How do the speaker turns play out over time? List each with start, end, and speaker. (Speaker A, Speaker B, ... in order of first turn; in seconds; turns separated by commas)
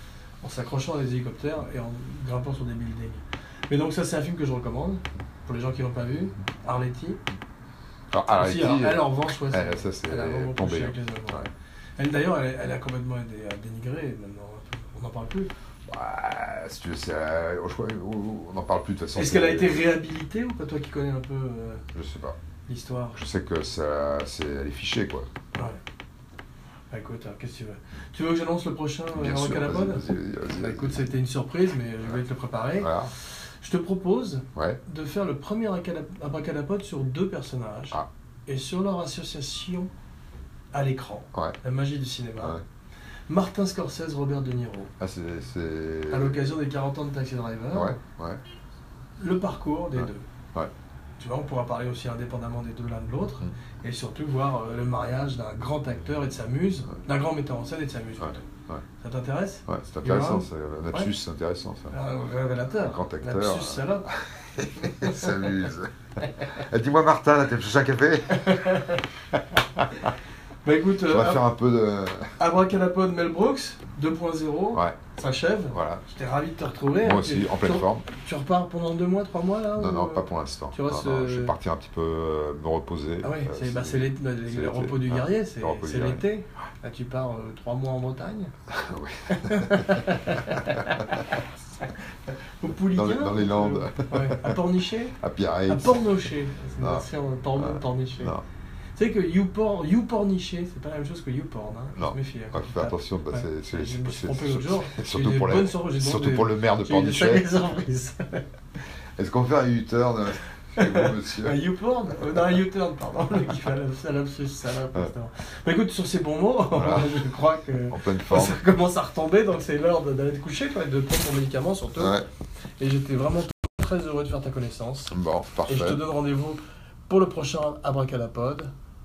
Speaker A: 0.4-7.2, Speaker B: 8.1-11.5, Speaker A: 8.3-15.5, Speaker B: 15.9-19.8, Speaker A: 19.1-21.8, Speaker B: 21.9-22.4, Speaker A: 22.7-23.2, Speaker B: 23.1-25.3, Speaker A: 25.6-25.8, Speaker A: 26.9-30.1, Speaker B: 29.1-31.1, Speaker A: 30.6-33.0, Speaker B: 32.8-33.1, Speaker A: 33.6-39.9, Speaker B: 34.5-34.8, Speaker A: 40.7-42.6, Speaker A: 43.3-44.9, Speaker B: 45.0-46.4, Speaker A: 46.1-48.0, Speaker B: 47.7-48.4, Speaker A: 49.2-50.2, Speaker B: 50.0-50.7, Speaker A: 51.2-61.1, Speaker B: 58.2-58.8, Speaker B: 59.7-61.9, Speaker A: 61.9-65.5, Speaker B: 62.8-65.9, Speaker A: 66.2-66.5, Speaker B: 66.5-70.1, Speaker A: 68.3-69.0, Speaker A: 70.6-71.4, Speaker B: 71.0-72.3, Speaker A: 72.4-81.5, Speaker B: 74.7-75.1, Speaker B: 75.7-76.0, Speaker B: 77.0-78.0, Speaker B: 79.8-86.2, Speaker A: 83.2-88.5, Speaker B: 88.7-91.1, Speaker A: 89.3-95.2, Speaker B: 92.9-94.6, Speaker B: 95.2-96.1, Speaker A: 95.7-98.3, Speaker B: 96.8-97.1, Speaker B: 97.6-98.4, Speaker A: 99.0-108.5, Speaker B: 101.9-107.5, Speaker B: 109.2-111.6, Speaker A: 110.8-122.2, Speaker B: 116.7-117.2, Speaker B: 117.9-118.6, Speaker B: 122.0-122.3, Speaker A: 122.8-125.2, Speaker B: 125.1-126.0, Speaker A: 125.7-128.7